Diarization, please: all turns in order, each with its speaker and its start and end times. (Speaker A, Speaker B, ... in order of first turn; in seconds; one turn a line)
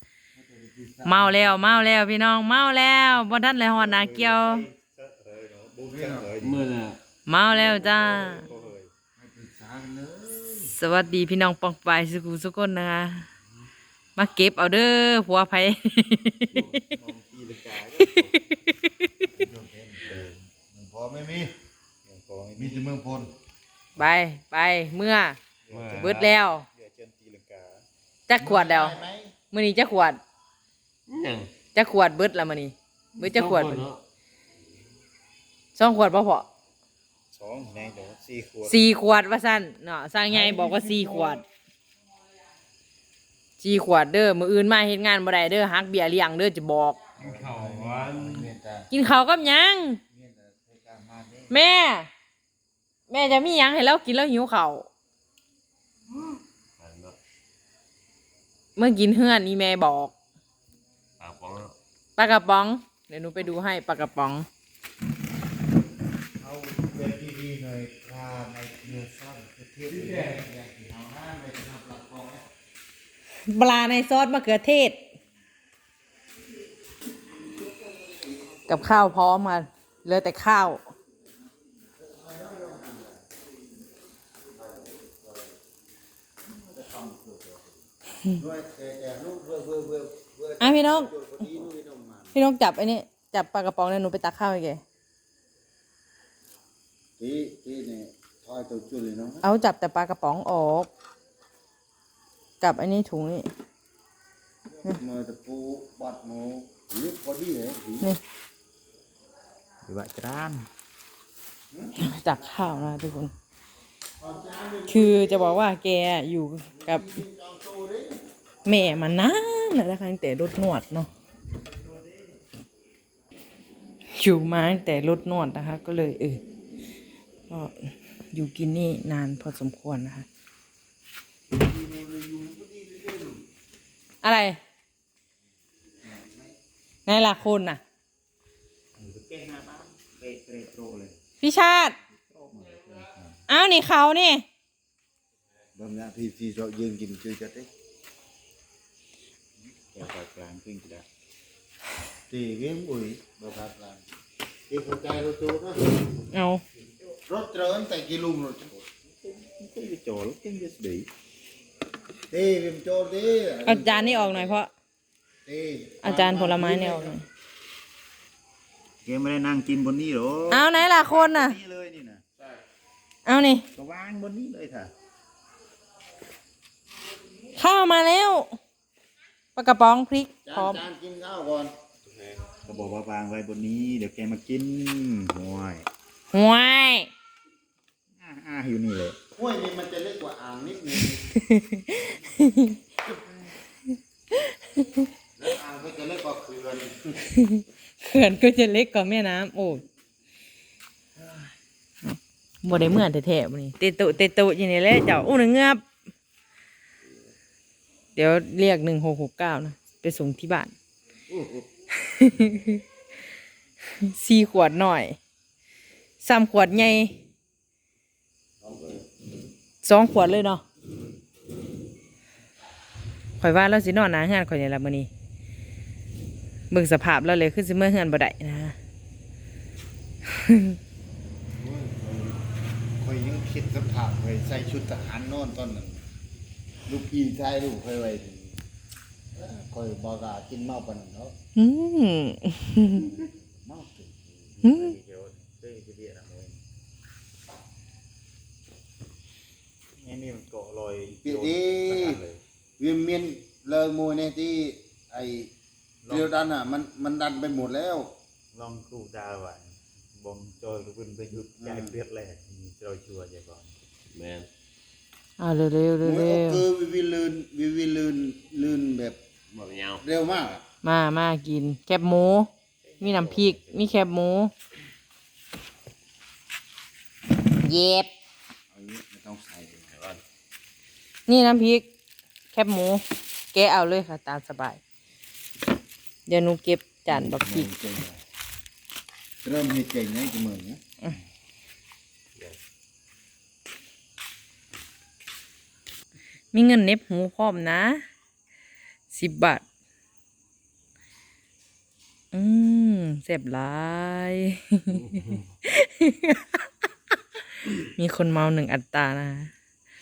Speaker A: 0.3-1.8
Speaker B: 1.1-4.6
Speaker C: 3.8-6.6
Speaker A: 5.8-6.3
Speaker D: 6.4-7.0
Speaker B: 7.3-8.4
Speaker C: 7.5-8.9
Speaker A: 9.2-10.7
Speaker B: 10.7-13.3
Speaker B: 14.2-16.8
Speaker C: 16.5-18.4
Speaker B: 18.1-18.7
Speaker A: 19.3-21.6
Speaker C: 20.1-20.3
Speaker C: 22.1-22.8
Speaker A: 22.6-23.3
Speaker B: 24.0-25.4
Speaker C: 25.7-27.9
Speaker D: 25.7-26.3
Speaker B: 25.9-26.7
Speaker B: 28.3-29.0
Speaker A: 28.4-29.4
Speaker B: 29.5-30.2
Speaker D: 31.1-31.5
Speaker B: 31.7-33.9
Speaker D: 33.2-34.0
Speaker B: 35.8-36.5
Speaker C: 37.3-38.8
Speaker B: 38.6-41.4
Speaker D: 40.3-41.4
Speaker B: 43.6-47.0
Speaker A: 47.2-48.9
Speaker D: 47.2-48.5
Speaker B: 48.9-50.0
Speaker A: 50.1-51.6
Speaker B: 51.5-52.1
Speaker B: 53.1-54.9
Speaker D: 56.8-57.2
Speaker B: 58.8-60.1
Speaker D: 61.2-61.8
Speaker B: 62.2-64.5
Speaker A: 66.4-72.5
Speaker D: 70.0-70.4
Speaker B: 73.5-75.0
Speaker B: 78.7-80.8
Speaker A: 82.0-83.3
Speaker A: 84.5-85.5
Speaker A: 86.5-87.8
Speaker A: 88.3-92.4
Speaker B: 90.6-91.1
Speaker B: 92.3-94.8
Speaker A: 97.2-99.5
Speaker B: 99.4-100.9
Speaker B: 102.6-103.5
Speaker A: 104.7-108.1
Speaker C: 109.8-110.7
Speaker A: 111.7-112.0
Speaker B: 112.0-113.3
Speaker A: 114.2-115.7
Speaker B: 114.9-117.2
Speaker A: 116.7-118.2
Speaker B: 118.7-121.1
Speaker B: 124.2-126.4
Speaker B: 128.3-130.3
Speaker A: 131.5-133.4
Speaker B: 134.2-134.6
Speaker A: 136.0-136.6
Speaker B: 137.1-137.8
Speaker C: 139.0-141.2
Speaker B: 141.4-141.9
Speaker A: 142.5-143.2
Speaker B: 143.5-144.4
Speaker A: 145.8-147.7
Speaker C: 149.9-151.1
Speaker A: 152.3-154.1
Speaker A: 154.7-156.2
Speaker B: 156.3-156.6
Speaker A: 157.3-158.9
Speaker C: 159.2-161.1
Speaker A: 162.3-164.6
Speaker B: 163.7-164.7
Speaker A: 165.4-167.2
Speaker B: 166.0-167.2
Speaker C: 169.1-172.3
Speaker B: 170.5-171.6
Speaker B: 173.3-173.7
Speaker C: 173.8-174.9
Speaker B: 177.6-178.6
Speaker B: 179.6-180.8
Speaker A: 180.5-181.8
Speaker C: 182.1-185.9
Speaker B: 186.3-187.1
Speaker C: 188.2-189.2
Speaker A: 189.3-191.3
Speaker B: 191.3-192.8
Speaker B: 194.5-195.0
Speaker A: 195.4-197.3
Speaker B: 197.4-199.8
Speaker B: 202.0-205.8
Speaker B: 208.2-210.7
Speaker A: 211.3-211.7
Speaker B: 212.1-212.8
Speaker B: 214.0-215.2
Speaker B: 216.2-217.1
Speaker A: 218.6-219.1
Speaker B: 219.8-220.6
Speaker B: 223.4-225.1
Speaker B: 226.7-228.8
Speaker B: 230.4-230.8
Speaker A: 231.6-232.4
Speaker A: 233.0-236.1
Speaker A: 236.9-238.6
Speaker A: 239.3-241.3
Speaker B: 241.6-243.1
Speaker A: 242.8-244.5
Speaker C: 244.6-246.6
Speaker B: 244.6-244.9
Speaker C: 250.0-252.4
Speaker A: 251.2-252.2
Speaker A: 252.8-255.5
Speaker C: 256.0-256.6
Speaker A: 256.1-258.1
Speaker C: 258.5-263.8
Speaker A: 261.6-262.0
Speaker D: 264.1-264.5
Speaker B: 265.4-266.6
Speaker A: 266.0-269.2
Speaker D: 269.6-270.0
Speaker A: 270.0-270.6
Speaker B: 270.8-272.5
Speaker C: 272.8-273.9
Speaker B: 273.0-274.5
Speaker B: 277.6-278.1
Speaker A: 278.7-280.0
Speaker D: 279.9-280.2
Speaker B: 281.3-281.9
Speaker B: 282.5-284.8
Speaker B: 286.3-287.7
Speaker A: 287.1-288.2
Speaker A: 289.4-290.8
Speaker B: 296.5-298.0
Speaker B: 299.1-299.6
Speaker B: 302.3-305.1
Speaker D: 305.1-305.4
Speaker B: 305.7-306.6
Speaker B: 307.8-309.5